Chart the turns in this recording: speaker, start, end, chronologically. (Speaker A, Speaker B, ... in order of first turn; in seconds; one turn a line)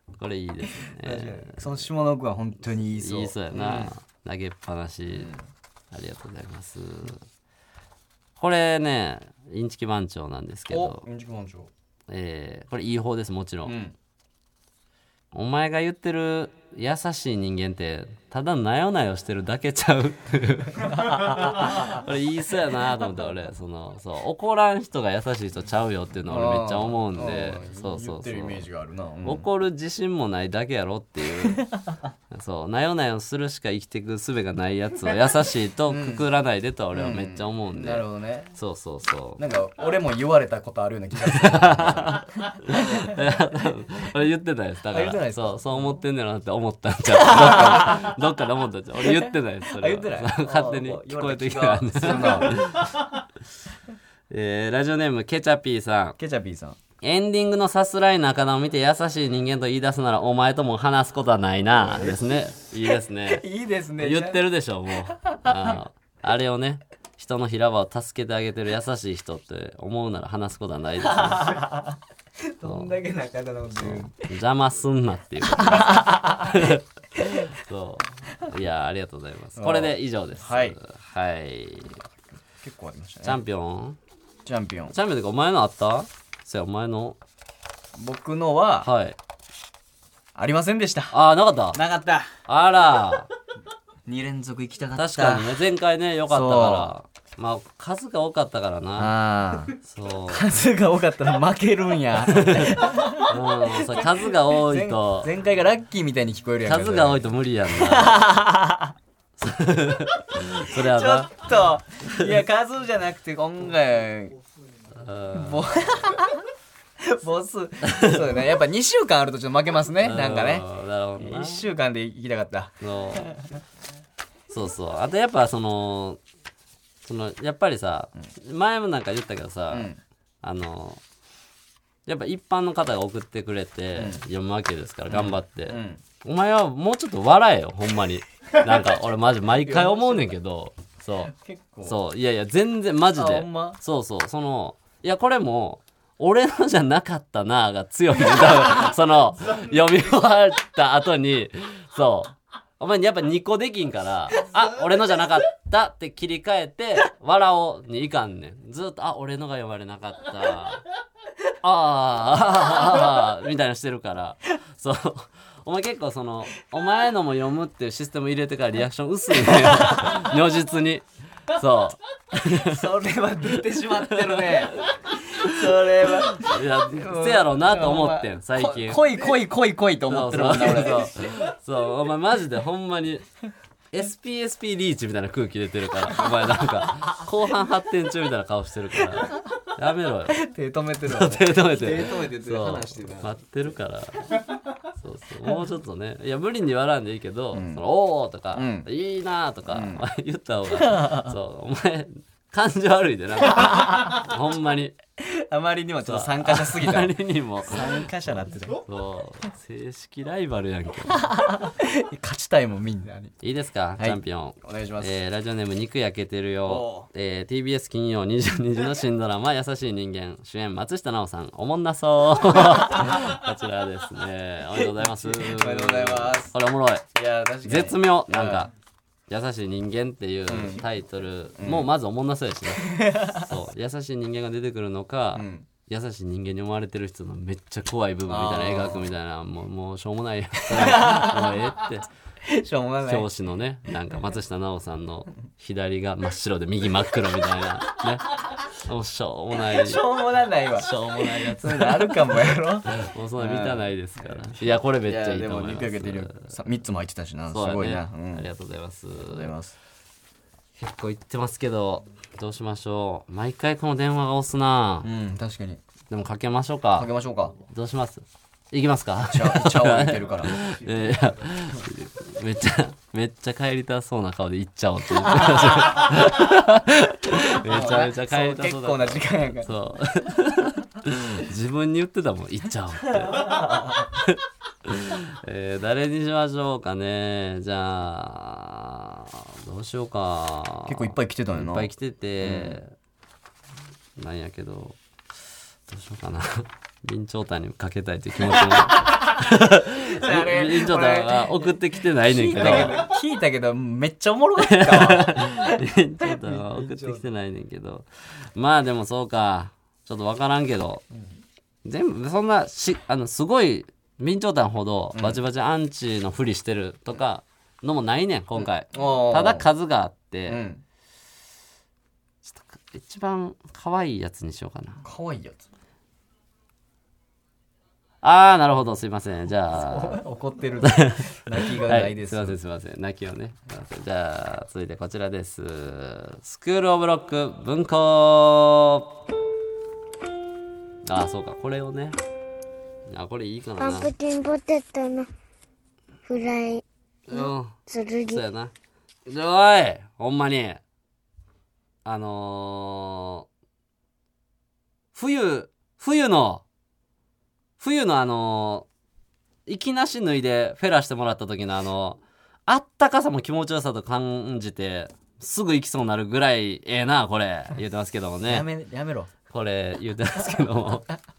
Speaker A: 0.2-1.9
Speaker B: 0.8-3.9
Speaker A: 2.9-5.3
Speaker A: 5.9-7.2
Speaker A: 8.4-11.0
Speaker B: 10.7-11.7
Speaker A: 12.1-13.8
Speaker B: 13.6-13.9
Speaker A: 15.3-28.6
Speaker B: 26.2-29.5
Speaker A: 29.2-31.7
Speaker A: 32.3-39.4
Speaker B: 35.9-36.2
Speaker B: 36.9-38.6
Speaker B: 39.4-43.2
Speaker A: 41.3-53.2
Speaker B: 44.9-46.0
Speaker B: 47.1-48.1
Speaker B: 49.1-52.6
Speaker A: 54.3-56.2
Speaker B: 56.2-56.8
Speaker A: 57.0-63.4
Speaker B: 61.8-62.2
Speaker B: 63.3-64.4
Speaker A: 64.0-71.7
Speaker B: 65.2-65.7
Speaker B: 71.0-74.2
Speaker A: 72.6-72.9
Speaker A: 73.7-82.0
Speaker B: 75.6-77.4
Speaker B: 79.5-80.8
Speaker B: 82.6-83.4
Speaker A: 83.2-84.0
Speaker B: 84.4-84.9
Speaker A: 84.9-87.2
Speaker B: 87.9-88.9
Speaker A: 88.8-89.2
Speaker B: 90.3-91.2
Speaker A: 91.1-91.8
Speaker B: 91.7-92.3
Speaker A: 92.5-93.3
Speaker B: 94.0-95.6
Speaker A: 95.0-99.1
Speaker B: 96.3-96.9
Speaker B: 99.0-99.8
Speaker A: 99.8-100.5
Speaker B: 100.3-108.9
Speaker A: 102.3-105.3
Speaker A: 106.7-108.2
Speaker A: 109.4-111.3
Speaker B: 110.3-114.4
Speaker A: 114.9-116.1
Speaker B: 115.3-116.5
Speaker B: 117.0-120.7
Speaker A: 117.8-118.3
Speaker A: 120.0-121.7
Speaker B: 121.2-123.4
Speaker A: 122.8-123.3
Speaker A: 124.5-126.2
Speaker A: 127.0-129.9
Speaker B: 129.7-130.0
Speaker A: 130.4-131.0
Speaker A: 132.1-141.3
Speaker B: 133.9-134.2
Speaker B: 135.1-136.0
Speaker B: 139.5-140.3
Speaker B: 141.3-142.0
Speaker A: 141.8-160.8
Speaker B: 143.1-143.8
Speaker A: 161.6-172.8
Speaker B: 169.4-170.3
Speaker B: 172.6-181.3
Speaker A: 174.1-174.9
Speaker A: 176.2-179.2
Speaker A: 180.1-183.3
Speaker A: 183.9-190.4
Speaker B: 190.3-193.3
Speaker A: 191.1-204.9
Speaker B: 197.5-197.8
Speaker B: 198.5-198.9
Speaker B: 199.7-200.0
Speaker B: 200.8-201.3
Speaker B: 205.2-208.8
Speaker A: 206.0-211.3
Speaker B: 211.3-213.4
Speaker A: 213.4-227.0
Speaker B: 214.0-215.2
Speaker B: 216.6-217.1
Speaker B: 224.7-226.5
Speaker B: 227.1-228.7
Speaker A: 227.6-228.7
Speaker A: 229.3-242.1
Speaker B: 230.5-230.8
Speaker B: 231.6-231.9
Speaker B: 232.9-233.4
Speaker B: 235.3-235.7
Speaker B: 238.3-239.1
Speaker B: 240.7-241.6
Speaker B: 242.4-243.3
Speaker A: 243.0-250.1
Speaker B: 249.7-250.9
Speaker A: 250.7-256.5
Speaker B: 251.4-258.5
Speaker A: 257.5-259.5
Speaker B: 259.2-259.8
Speaker A: 260.8-265.1
Speaker B: 265.0-265.8
Speaker A: 266.1-267.1
Speaker B: 267.0-267.6
Speaker A: 267.7-292.9
Speaker B: 269.2-270.9
Speaker B: 271.5-271.8
Speaker B: 275.2-276.0
Speaker B: 277.5-279.7
Speaker B: 283.2-284.0
Speaker B: 290.9-292.8
Speaker A: 294.2-295.0
Speaker A: 295.9-303.0
Speaker B: 298.6-307.2
Speaker A: 304.6-311.0
Speaker A: 311.8-320.6
Speaker B: 315.1-315.4
Speaker B: 318.6-319.7
Speaker B: 320.5-320.8
Speaker A: 322.5-325.0
Speaker B: 325.0-325.6
Speaker A: 328.2-330.2
Speaker B: 329.7-332.6
Speaker A: 330.9-339.1
Speaker A: 341.0-342.1
Speaker A: 343.1-344.1
Speaker C: 343.8-345.3
Speaker C: 346.3-348.4
Speaker A: 347.3-347.8
Speaker A: 348.3-348.7
Speaker A: 349.2-350.8
Speaker A: 352.0-353.4
Speaker A: 355.1-356.6
Speaker A: 357.8-358.9
Speaker A: 359.7-368.7
Speaker B: 368.4-369.3
Speaker A: 369.5-371.1